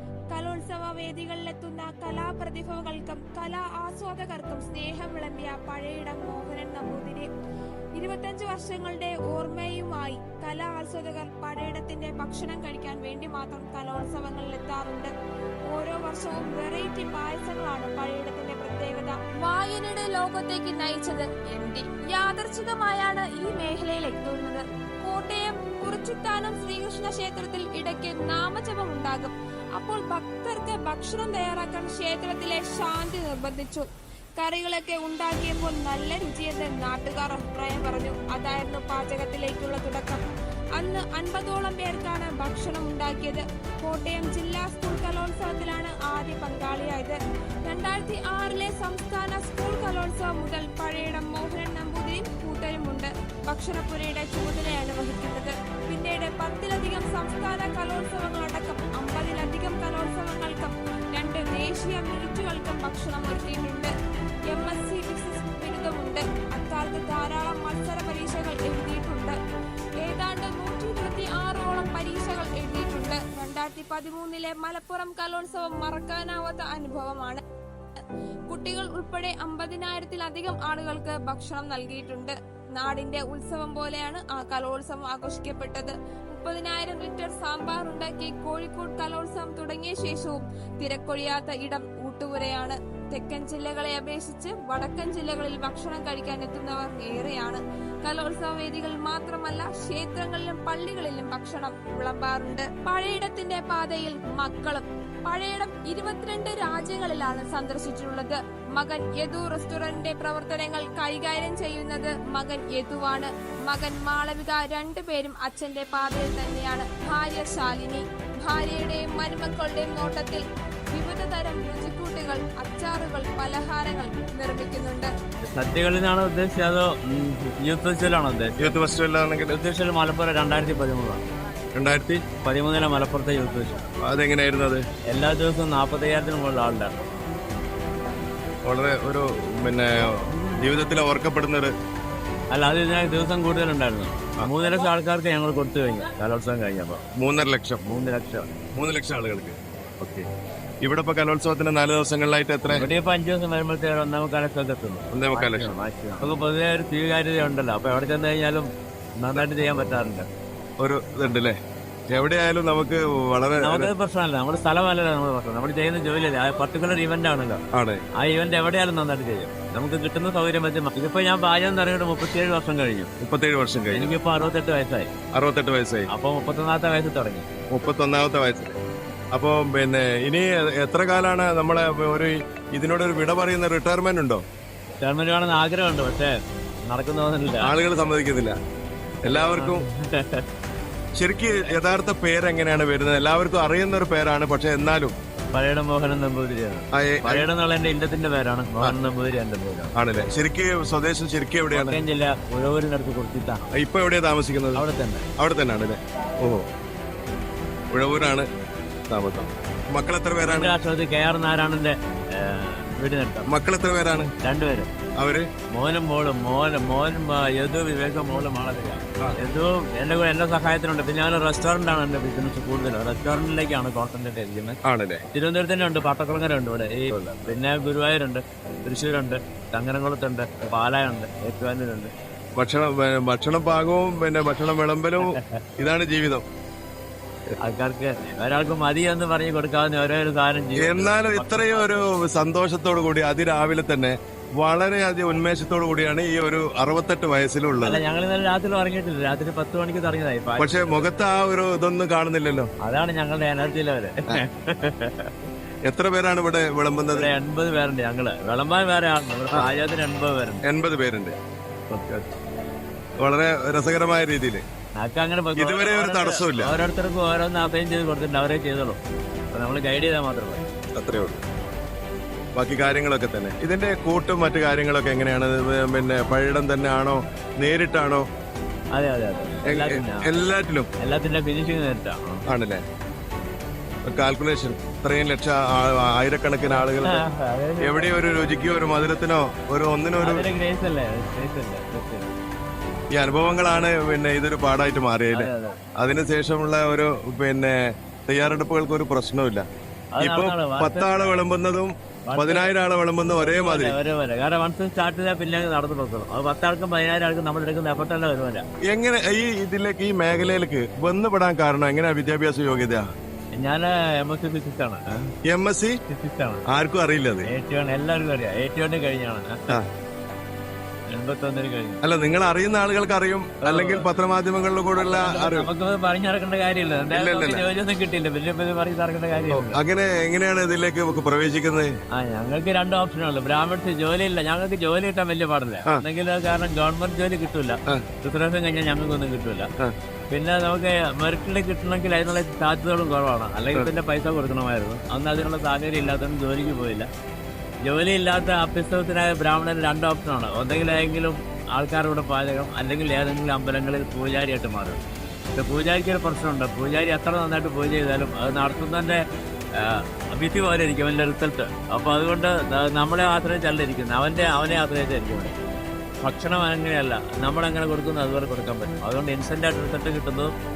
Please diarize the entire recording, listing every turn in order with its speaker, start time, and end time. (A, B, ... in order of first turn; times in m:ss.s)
0:00.3-0:07.3 A
0:08.0-0:15.1 A
0:15.7-0:33.9 A
0:34.4-0:40.2 A
0:40.8-1:03.9 A
1:04.5-1:09.4 A
1:10.0-1:17.4 A
1:18.5-2:05.1 A
2:05.4-2:08.7 B
2:08.6-2:09.5 C
2:09.5-2:11.2 B
2:11.7-2:12.2 C
2:12.3-2:13.8 B
2:14.0-2:14.8 C
2:15.1-2:17.0 B
2:18.6-2:21.7 C
2:22.5-2:27.0 B
2:27.2-2:27.8 C
2:27.8-2:28.5 B
2:28.7-2:30.2 C
2:30.8-2:32.9 C
2:32.7-2:40.3 B
2:35.1-2:35.8 C
2:40.8-2:41.6 C
2:42.1-2:43.9 C
2:43.6-2:47.6 B
2:47.7-2:48.0 C
2:48.2-2:53.1 B
2:53.2-2:54.1 C
2:53.9-2:55.1 B
2:55.3-2:56.1 C
2:56.1-2:57.5 B
2:57.7-2:58.8 C
2:59.3-3:04.4 C
3:05.0-3:07.7 B
3:07.6-3:08.6 C
3:09.2-3:09.8 C
3:09.2-3:10.4 B
3:11.2-3:15.1 C
3:15.5-3:19.9 B
3:16.9-3:17.4 C
3:19.9-3:22.0 C
3:21.7-3:23.7 B
3:23.7-3:24.8 C
3:24.7-3:25.2 B
3:25.4-3:26.6 C
3:27.9-3:28.5 C
3:29.1-3:30.7 C
3:30.4-3:33.5 B
3:33.5-3:34.3 C
3:34.4-3:34.9 B
3:35.2-3:35.5 C
3:35.7-3:44.8 B
3:44.8-3:45.2 C
3:45.3-3:52.1 B
3:52.6-3:56.4 C
3:55.3-3:55.6 B
3:57.6-4:02.0 B
4:00.8-4:08.0 C
4:07.8-4:11.1 B
4:10.6-4:12.7 C
4:12.8-4:15.3 B
4:15.8-4:17.3 C
4:17.1-4:20.6 B
4:20.6-4:21.4 C
4:22.0-4:22.2 C
4:23.2-4:24.6 C
4:25.0-4:29.0 B
4:25.5-4:26.7 C
4:29.5-4:30.6 B
4:30.9-4:31.4 C
4:32.6-4:38.2 C
4:38.9-4:40.3 B
4:39.6-4:40.9 C
4:41.0-4:42.4 B
4:42.5-4:42.8 C
4:44.0-4:47.2 C
4:46.7-4:48.1 B
4:47.8-4:50.4 C
4:50.2-4:52.3 B
4:53.1-4:59.6 C
4:55.3-4:55.8 B
5:00.1-5:01.4 B
5:00.2-5:04.0 C
5:02.3-5:02.7 B
5:03.3-5:08.6 B
5:08.8-5:13.0 C
5:13.6-5:15.0 B
5:15.4-5:16.0 C
5:16.1-5:16.6 B
5:16.7-5:17.5 C
5:17.4-5:19.8 B
5:21.1-5:22.0 B
5:22.0-5:25.7 C
5:23.6-5:24.1 B
5:25.0-5:29.8 B
5:27.1-5:27.6 C
5:29.5-5:31.9 C
5:32.1-5:39.7 B
5:40.3-5:47.1 B
5:47.8-5:55.0 B
5:55.6-5:59.2 B
5:59.8-6:05.5 B
6:06.2-6:10.5 B